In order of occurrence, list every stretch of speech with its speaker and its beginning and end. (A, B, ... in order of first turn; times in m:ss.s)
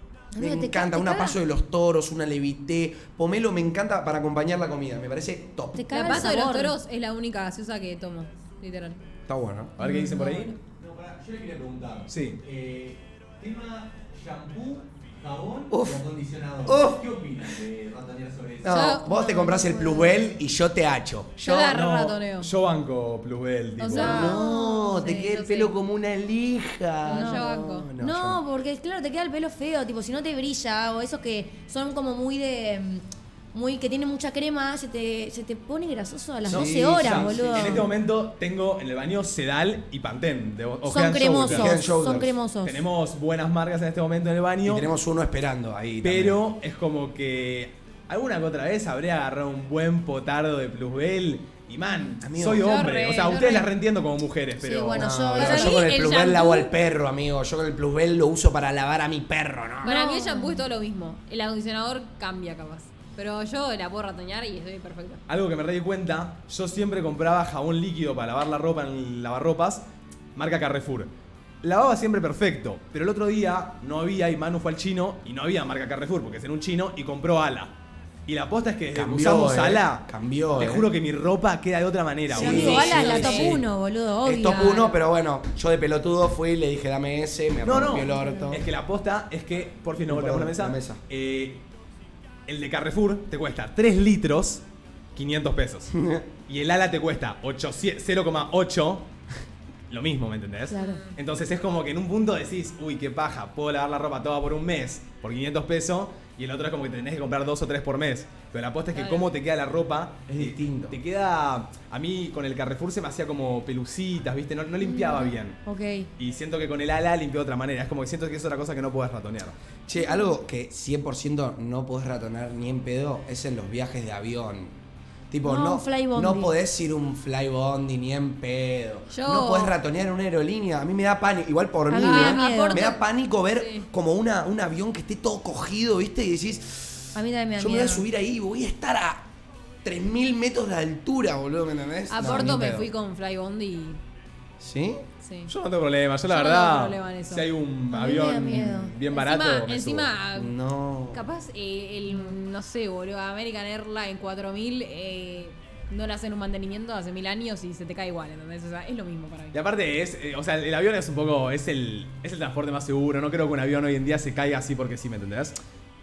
0:00.3-0:01.4 A
0:00.4-0:06.3 B
0:05.8-0:06.8 A
0:05.9-0:09.0 C
0:09.3-0:09.8 B
0:09.8-0:10.5 D
0:09.8-0:10.5 C
0:09.8-0:10.5 A
0:10.7-0:18.8 E
0:12.1-0:12.4 D
0:15.7-0:16.0 B
0:16.6-0:17.0 B
0:18.6-0:21.8 B
0:18.7-0:19.7 C
0:19.1-0:20.1 A
0:21.4-0:22.5 C
0:21.7-0:24.1 D
0:23.8-0:25.7 C
0:23.9-0:25.1 A
0:24.0-0:28.4 B
0:27.0-0:27.9 C
0:27.1-0:37.9 A
0:36.4-0:37.9 B
0:36.5-0:41.8 D
0:40.8-0:42.8 A
0:41.5-0:42.4 B
0:42.6-0:44.9 D
0:44.6-0:46.4 B
0:46.0-0:55.5 D
0:52.2-0:52.8 B
0:52.6-0:53.7 C
0:54.6-0:56.3 A
0:54.9-1:00.0 B
0:55.4-0:56.7 C
0:59.8-1:00.6 A
0:59.8-1:05.2 C
1:05.3-1:09.8 D
1:10.4-1:11.1 D
1:11.6-1:17.7 D
1:18.3-1:23.6 D
1:18.9-1:20.9 B
1:22.3-1:23.7 B
1:22.3-1:25.0 A
1:22.8-1:23.4 C
1:24.2-1:28.6 B
1:27.6-1:31.6 D
1:28.0-1:28.6 A
1:30.1-1:31.0 B
1:32.5-1:34.6 D
1:35.2-1:35.9 D
1:35.9-1:36.3 B
1:36.5-1:39.1 D
1:39.9-1:55.6 D
1:40.7-1:41.0 A
1:40.7-1:41.2 C
1:48.9-1:49.3 C
1:50.3-1:51.0 B
1:54.8-1:56.1 A
1:56.2-1:59.6 D
1:59.9-2:04.8 B
2:00.0-2:00.3 A
2:05.3-2:19.3 B
2:05.4-2:06.5 A
2:09.1-2:09.8 C
2:11.9-2:13.0 A
2:11.9-2:13.0 C
2:13.5-2:13.9 C
2:17.2-2:18.1 A
2:19.8-2:22.9 B
2:22.1-2:24.0 C
2:24.6-2:25.0 B
2:25.2-2:25.5 C
2:25.5-2:30.1 D
2:26.3-2:27.5 C
2:27.9-2:29.0 A
2:29.1-2:30.6 C
2:30.4-2:31.2 B
2:31.1-2:39.6 C
2:32.1-2:32.4 A
2:39.5-2:45.6 D